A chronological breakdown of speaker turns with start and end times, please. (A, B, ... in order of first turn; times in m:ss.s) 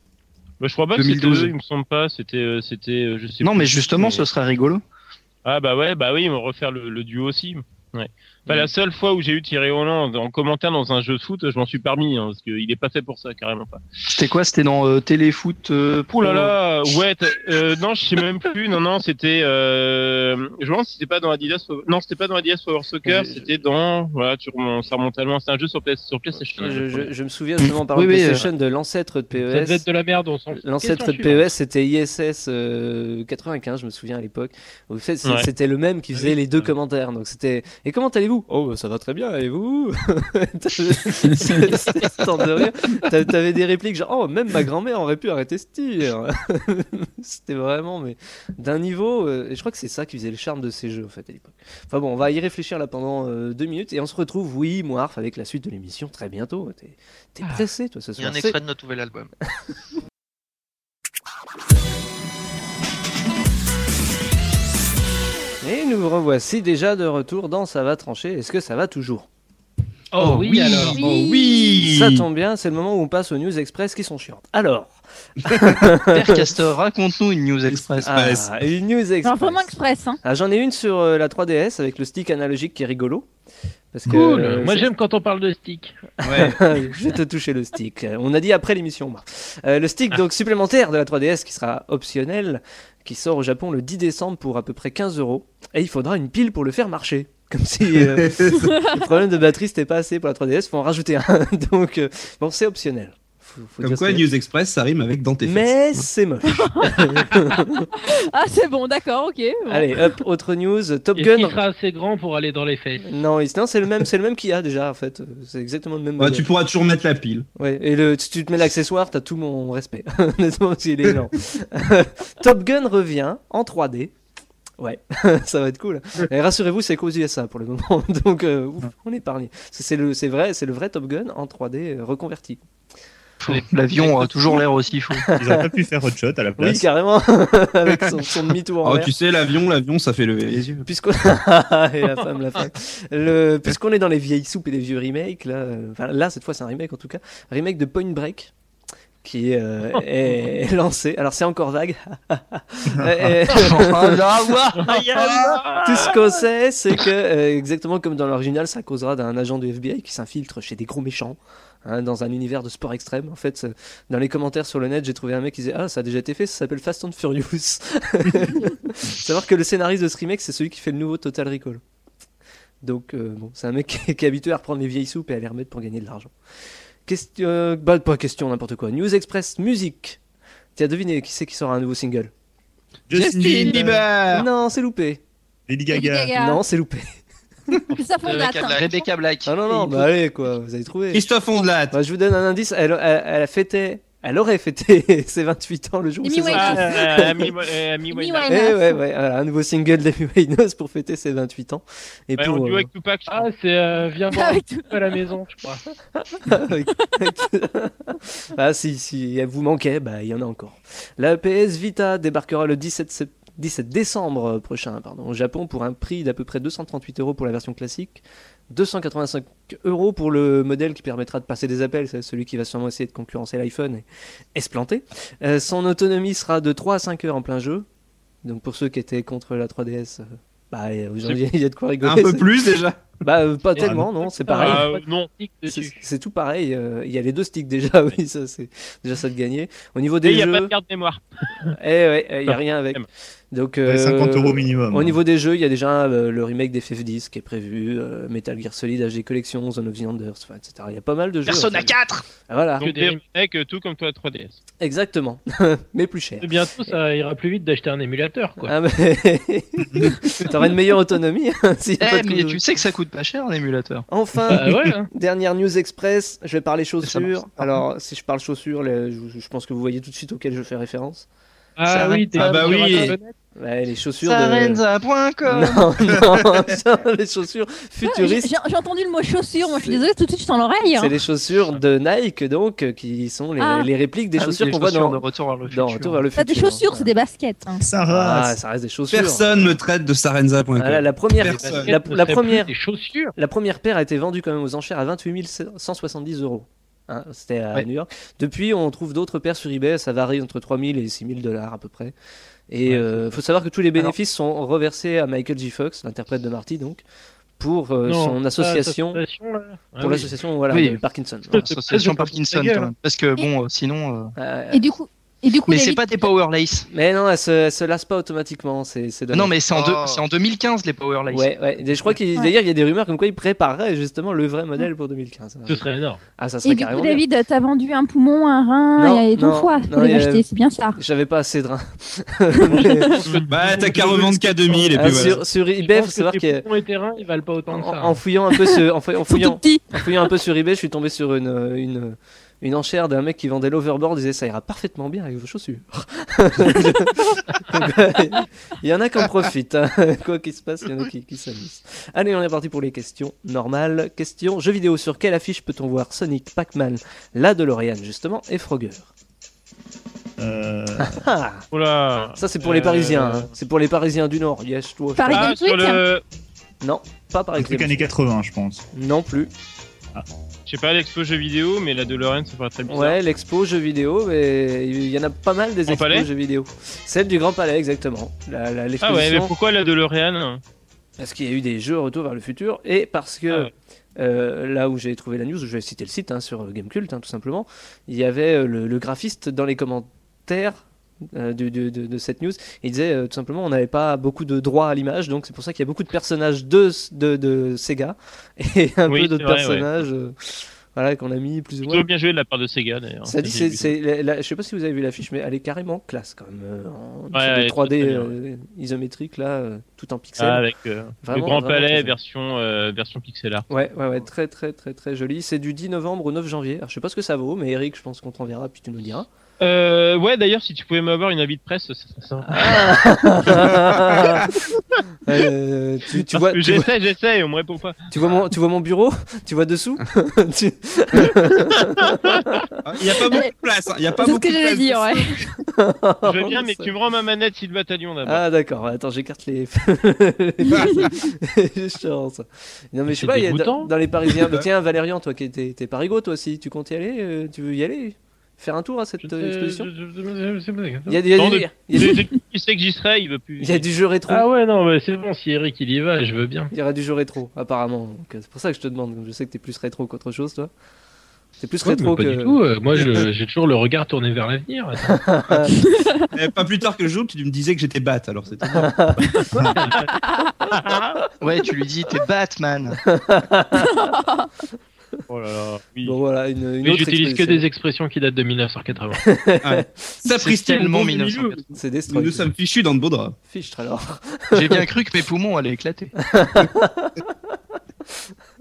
0:00.6-0:04.2 A
0:01.0-0:01.5 B
0:03.4-0:04.8 B
0:05.4-0:13.8 A
0:14.1-0:16.6 B
0:16.1-0:27.1 A
0:23.0-0:23.5 C
0:26.6-0:29.8 C
0:27.6-0:28.5 B
0:29.3-0:31.5 D
0:30.5-0:58.6 C
0:36.1-0:36.7 D
0:58.2-0:59.3 E
1:05.6-1:09.3 C
1:10.1-1:11.0 D
1:10.2-1:12.2 F
1:10.6-1:11.0 B
1:10.8-1:16.5 C
1:11.0-1:11.6 G
1:16.0-1:18.1 B
1:17.7-1:18.5 F
1:18.0-1:23.3 C
1:19.2-1:20.2 G
1:23.9-1:24.9 C
1:24.1-1:26.1 D
1:26.2-1:26.6 F
1:26.2-1:44.2 C
1:38.2-1:38.7 F
1:38.6-1:38.9 G
1:43.8-1:45.7 F
1:45.4-1:47.9 C
1:48.1-1:49.9 G
1:49.7-1:51.6 C
1:51.2-1:53.0 D
1:53.0-1:56.5 C
1:56.2-1:57.5 F
1:57.6-2:04.1 C
2:04.8-2:12.6 C
2:13.4-2:15.3 B
2:14.0-2:14.6 C
2:15.1-2:15.7 C
2:15.4-2:16.9 H
2:16.6-2:19.1 C
2:18.8-2:20.8 F
2:20.8-2:28.5 C
2:29.2-2:34.6 C
2:33.5-2:35.0 B
2:34.8-2:36.2 A
2:34.9-2:35.3 F
2:35.8-2:51.8 C
2:52.8-2:56.3 C
2:57.1-3:00.2 C
3:00.8-3:02.3 C
3:03.1-3:04.1 H
3:03.1-3:04.5 F
3:04.3-3:05.2 C
3:05.7-3:06.4 H
3:05.9-3:06.6 G
3:06.3-3:07.2 C
3:07.9-3:09.1 G
3:08.2-3:10.1 B
3:08.3-3:08.9 E
3:09.5-3:11.2 C
3:11.1-3:12.0 F
3:11.9-3:17.5 C
3:16.2-3:17.1 G
3:16.5-3:18.6 A
3:18.1-3:19.0 G
3:18.5-3:22.9 C
3:22.4-3:23.5 A
3:23.3-3:25.8 D
3:24.3-3:24.9 G
3:26.2-3:47.9 C
3:48.4-3:52.5 C
3:52.0-3:53.1 F
3:53.2-3:54.9 C
3:53.8-3:54.1 H
3:53.8-3:56.0 D
3:54.6-3:55.3 A
3:55.6-4:00.7 C
4:00.2-4:01.7 A
4:01.8-4:12.9 C
4:02.5-4:03.1 A
4:03.9-4:05.2 H
4:11.4-4:12.3 B
4:12.8-4:13.2 D
4:12.8-4:14.6 A
4:14.8-4:16.9 C
4:16.4-4:18.7 D
4:18.6-4:22.6 C
4:22.0-4:24.1 B
4:24.1-4:31.3 C
4:24.5-4:25.1 D
4:31.8-4:33.4 D
4:31.9-4:33.0 B
4:32.3-4:33.1 F
4:32.4-4:32.9 C
4:33.6-4:34.8 C
4:34.2-4:35.9 B
4:35.5-4:38.5 C
4:38.0-4:41.1 G
4:39.6-4:40.1 C
4:40.9-4:47.1 C
4:43.6-4:43.9 G
4:44.4-4:46.2 B
4:46.4-4:47.8 G
4:47.8-4:48.6 H
4:48.1-4:49.8 C
4:49.1-4:51.9 F
4:50.8-4:52.8 C
4:51.5-4:53.3 D
4:53.3-5:02.1 C
5:02.7-5:07.0 C
5:02.9-5:03.4 D
5:07.6-5:09.2 C
5:08.1-5:10.3 D
5:10.0-5:11.7 C
5:10.7-5:11.0 B
5:11.5-5:12.9 D
5:11.6-5:14.3 B
5:14.4-5:14.8 C
5:14.7-5:16.3 G
5:15.7-5:16.9 B
5:16.9-5:19.5 C
5:19.3-5:22.1 B
5:19.7-5:20.2 E
5:21.3-5:25.9 C
5:25.7-5:26.2 D
5:26.4-5:27.2 C
5:26.6-5:31.0 G
5:29.0-5:33.2 C
5:32.7-5:33.2 G
5:33.3-5:38.2 D
5:33.5-5:35.4 F
5:34.9-5:36.6 C
5:37.7-5:59.1 C
5:39.3-5:39.9 G
6:00.4-6:01.2 H
6:01.0-6:01.6 C
6:01.7-6:03.5 A
6:02.4-6:05.5 C
6:05.2-6:06.0 G
6:05.3-6:06.2 A
6:06.8-6:08.1 C
6:07.6-6:08.9 H
6:08.9-6:09.5 C
6:10.7-6:13.2 A
6:12.9-6:19.5 C
6:15.9-6:16.3 A
6:19.0-6:20.6 A
6:21.2-6:42.1 C
6:39.1-6:39.9 A
6:41.9-6:43.9 A
6:43.2-6:50.6 C
6:47.3-6:48.3 A
6:50.4-6:53.7 A
6:51.2-6:52.2 C
6:53.7-6:59.3 C
6:59.6-7:03.0 A
7:02.5-7:04.4 C
7:05.3-7:06.9 C
7:06.3-7:08.0 A
7:08.1-7:12.6 C
7:12.8-7:15.4 F
7:13.2-7:13.5 G
7:14.2-7:15.4 G
7:15.7-7:16.9 C
7:16.2-7:18.4 A
7:18.2-7:29.9 C
7:20.7-7:21.1 F
7:23.1-7:23.9 D
7:29.2-7:31.2 D
7:31.1-7:32.2 C
7:31.4-7:33.9 A
7:33.6-7:34.4 C
7:34.3-7:36.7 D
7:36.7-7:40.7 C
7:41.6-7:42.6 C
7:41.8-7:45.1 D
7:45.0-7:45.7 C
7:45.8-7:46.2 G
7:46.4-7:48.9 F
7:48.8-7:49.6 C
7:49.8-7:50.0 D
7:50.1-7:50.6 G
7:50.8-7:51.2 A
7:51.4-7:53.0 B
7:53.0-7:53.9 C
7:53.8-7:54.5 G
7:55.3-7:56.2 A
7:56.0-7:57.6 C
7:56.8-7:59.2 D
7:59.2-8:00.0 C
7:59.6-8:01.5 F
8:00.3-8:01.6 B
8:01.7-8:02.5 C
8:02.1-8:03.4 F
8:03.5-8:04.8 C
8:04.5-8:06.1 B
8:06.2-8:07.2 C